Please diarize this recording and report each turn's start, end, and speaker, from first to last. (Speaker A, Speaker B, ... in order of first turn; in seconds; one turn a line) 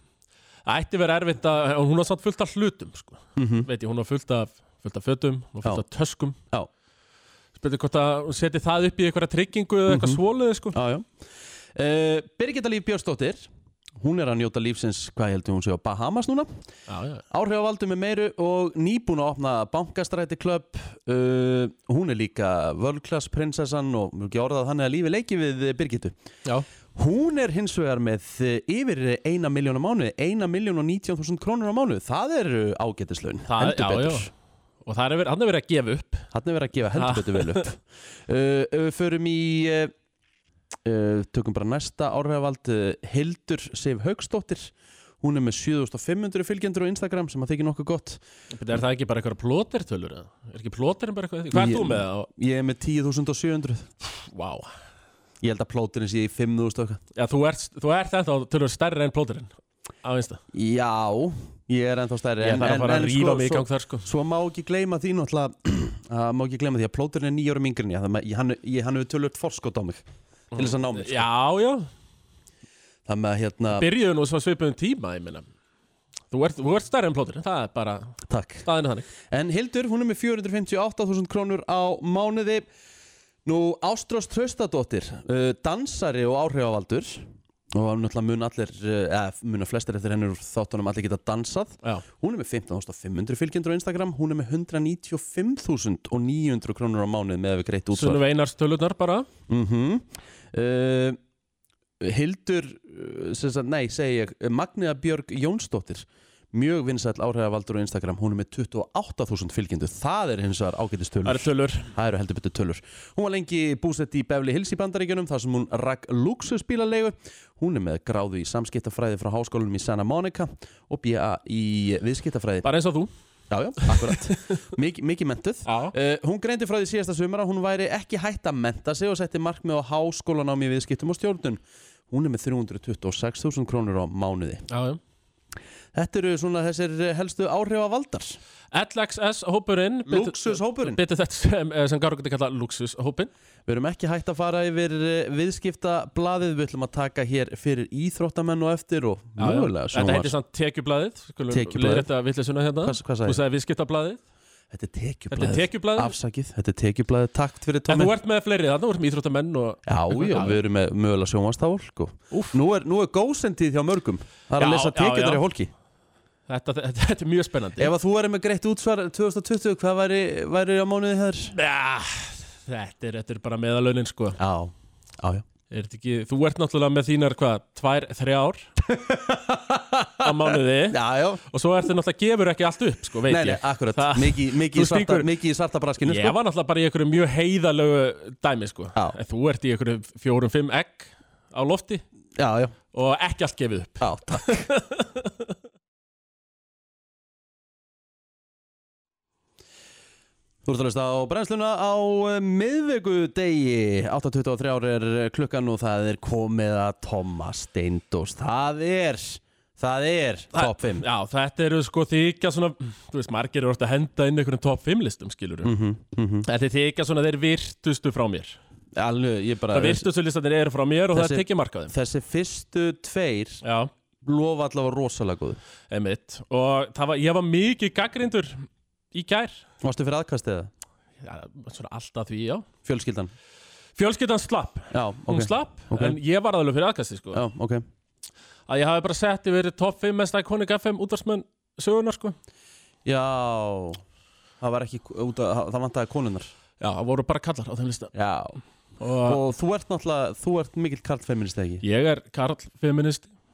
Speaker A: 0.7-6.4
Speaker B: 3.4-3.7
Speaker A: 7.6-10.8
Speaker B: 9.9-10.2
Speaker B: 10.7-11.1
Speaker B: 11.7-13.5
Speaker B: 14.0-16.5
Speaker A: 16.9-17.2
Speaker B: 17.3-26.1
Speaker B: 26.9-34.3
Speaker A: 33.5-34.3
Speaker A: 34.8-36.3
Speaker B: 36.3-39.9
Speaker A: 36.9-37.6
Speaker B: 40.8-48.2
Speaker A: 48.5-52.3
Speaker B: 51.5-53.9
Speaker A: 54.0-54.7
Speaker B: 55.4-57.0
Speaker A: 57.1-60.4
Speaker B: 60.5-71.3
Speaker A: 62.4-64.0
Speaker A: 70.5-71.9
Speaker B: 73.0-73.9
Speaker A: 73.7-75.5
Speaker A: 76.3-79.1
Speaker B: 78.3-78.7
Speaker B: 79.3-82.7
Speaker B: 83.4-98.2
Speaker A: 97.9-99.3
Speaker B: 99.5-101.2
Speaker B: 102.0-122.7
Speaker A: 111.2-111.9
Speaker A: 122.6-123.1
Speaker B: 123.5-134.7
Speaker A: 123.8-124.3
Speaker A: 125.7-125.9
Speaker A: 134.7-135.0
Speaker B: 135.9-138.4
Speaker A: 138.7-143.3
Speaker B: 140.1-141.0
Speaker B: 143.7-150.3
Speaker A: 149.4-154.2
Speaker B: 151.5-152.1
Speaker B: 152.8-153.4
Speaker B: 154.7-158.1
Speaker A: 155.3-156.1
Speaker A: 157.9-160.6
Speaker B: 159.8-165.7
Speaker A: 162.3-162.6
Speaker A: 164.6-165.4
Speaker A: 166.5-167.9
Speaker B: 167.8-171.6
Speaker A: 171.5-174.4
Speaker B: 174.4-175.4
Speaker A: 175.7-178.7
Speaker B: 178.8-181.4
Speaker A: 180.2-185.3
Speaker B: 183.3-186.3
Speaker A: 186.0-192.0
Speaker B: 192.3-192.7
Speaker A: 192.9-195.5
Speaker B: 194.0-194.7
Speaker B: 200.6-211.0
Speaker A: 210.5-215.7
Speaker B: 215.6-216.5
Speaker A: 216.4-218.6
Speaker B: 218.9-220.1
Speaker A: 219.7-221.9
Speaker B: 221.1-223.6
Speaker A: 223.6-223.9
Speaker B: 224.2-225.6
Speaker A: 225.9-229.6
Speaker B: 229.8-230.7
Speaker A: 231.2-232.7
Speaker B: 232.8-233.3
Speaker A: 233.9-237.4
Speaker B: 234.9-236.2
Speaker B: 237.3-237.8
Speaker A: 238.7-242.3
Speaker B: 243.0-244.0
Speaker B: 244.6-246.5
Speaker A: 246.8-248.1
Speaker B: 248.1-248.6
Speaker A: 249.0-249.4
Speaker B: 249.2-251.8
Speaker A: 251.8-253.3